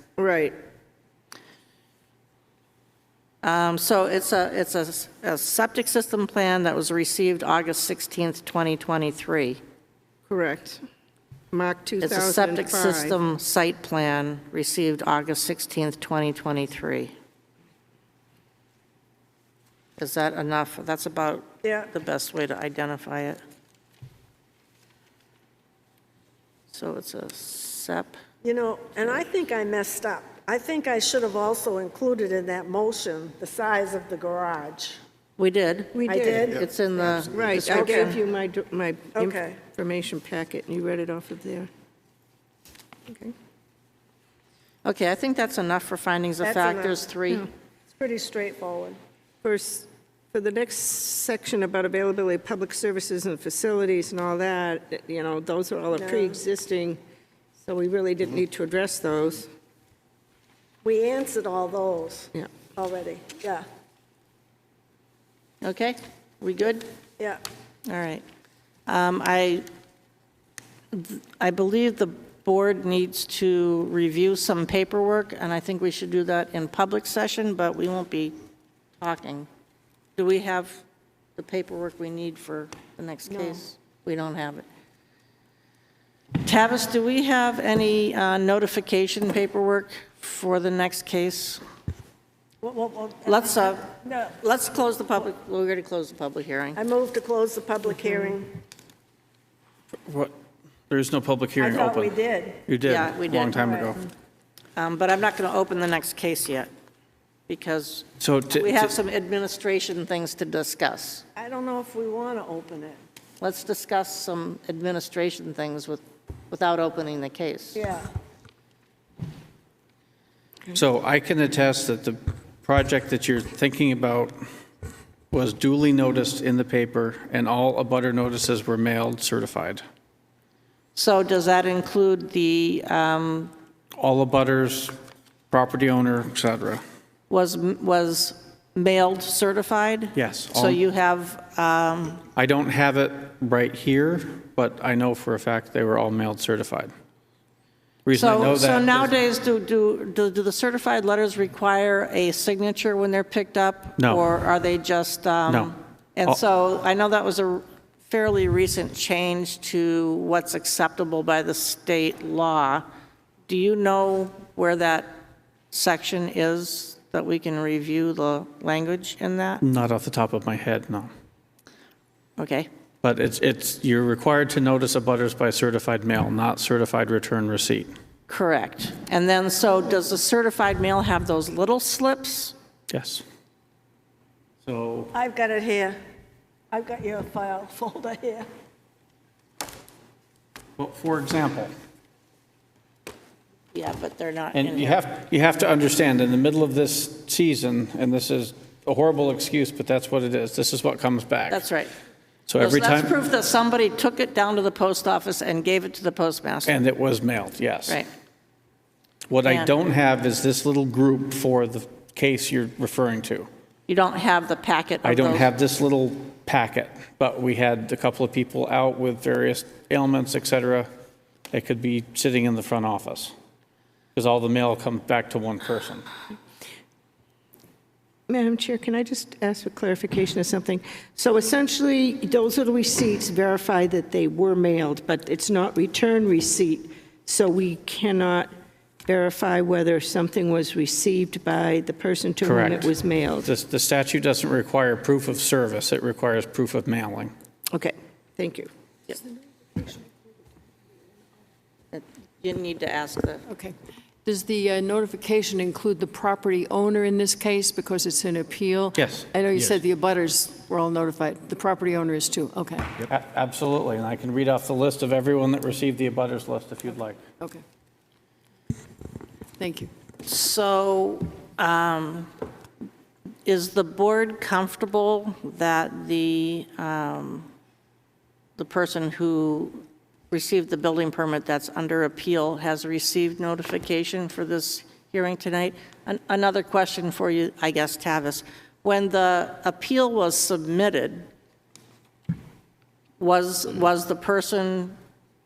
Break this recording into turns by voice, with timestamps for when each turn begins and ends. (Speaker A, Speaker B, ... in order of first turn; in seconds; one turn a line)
Speaker A: 0.2-0.5
Speaker B: 3.4-9.6
Speaker A: 10.3-10.8
Speaker A: 11.5-13.2
Speaker B: 12.0-17.1
Speaker B: 20.0-23.4
Speaker C: 21.6-21.9
Speaker B: 26.7-28.1
Speaker C: 28.4-35.0
Speaker B: 35.4-38.2
Speaker A: 35.9-36.5
Speaker C: 36.1-36.6
Speaker A: 37.2-41.7
Speaker C: 37.6-38.1
Speaker C: 39.1-39.6
Speaker B: 44.8-47.5
Speaker C: 46.4-47.0
Speaker C: 47.9-49.0
Speaker A: 49.4-57.0
Speaker C: 56.0-56.3
Speaker A: 57.6-59.5
Speaker C: 60.8-63.6
Speaker B: 65.6-66.8
Speaker B: 67.9-68.2
Speaker B: 68.9-69.7
Speaker B: 70.9-78.3
Speaker B: 79.0-79.5
Speaker B: 80.2-80.8
Speaker B: 81.4-84.6
Speaker B: 86.4-91.6
Speaker C: 92.6-94.3
Speaker B: 93.2-96.8
Speaker C: 96.8-98.5
Speaker D: 100.0-100.3
Speaker D: 100.9-102.1
Speaker C: 101.6-102.6
Speaker D: 102.7-104.0
Speaker B: 102.8-103.9
Speaker B: 104.8-106.7
Speaker B: 107.5-111.2
Speaker D: 108.2-108.9
Speaker C: 111.3-113.0
Speaker B: 113.4-117.9
Speaker C: 117.7-118.0
Speaker D: 120.7-124.3
Speaker D: 125.3-129.8
Speaker B: 130.9-133.5
Speaker D: 134.0-134.9
Speaker D: 135.5-136.8
Speaker B: 137.3-142.2
Speaker D: 140.1-140.8
Speaker D: 142.3-146.9
Speaker D: 148.1-149.1
Speaker B: 148.1-162.8
Speaker D: 154.0-154.2
Speaker B: 163.5-165.2
Speaker B: 165.7-169.6
Speaker D: 169.6-171.1
Speaker B: 172.4-172.7
Speaker D: 173.0-177.9
Speaker B: 178.3-182.5
Speaker D: 182.9-183.2
Speaker D: 184.6-185.1
Speaker C: 185.1-185.9
Speaker C: 186.7-188.4
Speaker D: 190.8-191.7
Speaker B: 193.7-195.0
Speaker D: 194.5-201.6
Speaker B: 201.5-201.9
Speaker D: 202.5-203.1
Speaker B: 202.6-206.8
Speaker D: 206.7-208.0
Speaker D: 209.3-213.5
Speaker B: 209.4-209.7
Speaker B: 213.9-215.5
Speaker D: 215.0-220.9
Speaker D: 221.5-223.3
Speaker D: 224.1-226.1
Speaker A: 228.3-238.5
Speaker A: 239.1-243.5
Speaker D: 242.4-242.9
Speaker D: 243.4-247.3
Speaker A: 247.7-248.7
Speaker B: 251.9-253.4
Speaker E: 254.2-263.0
Speaker D: 258.9-259.3
Speaker D: 263.1-267.2
Speaker E: 269.6-269.9
Speaker B: 270.2-272.3
Speaker B: 273.4-277.5
Speaker B: 278.6-291.2
Speaker B: 293.2-294.9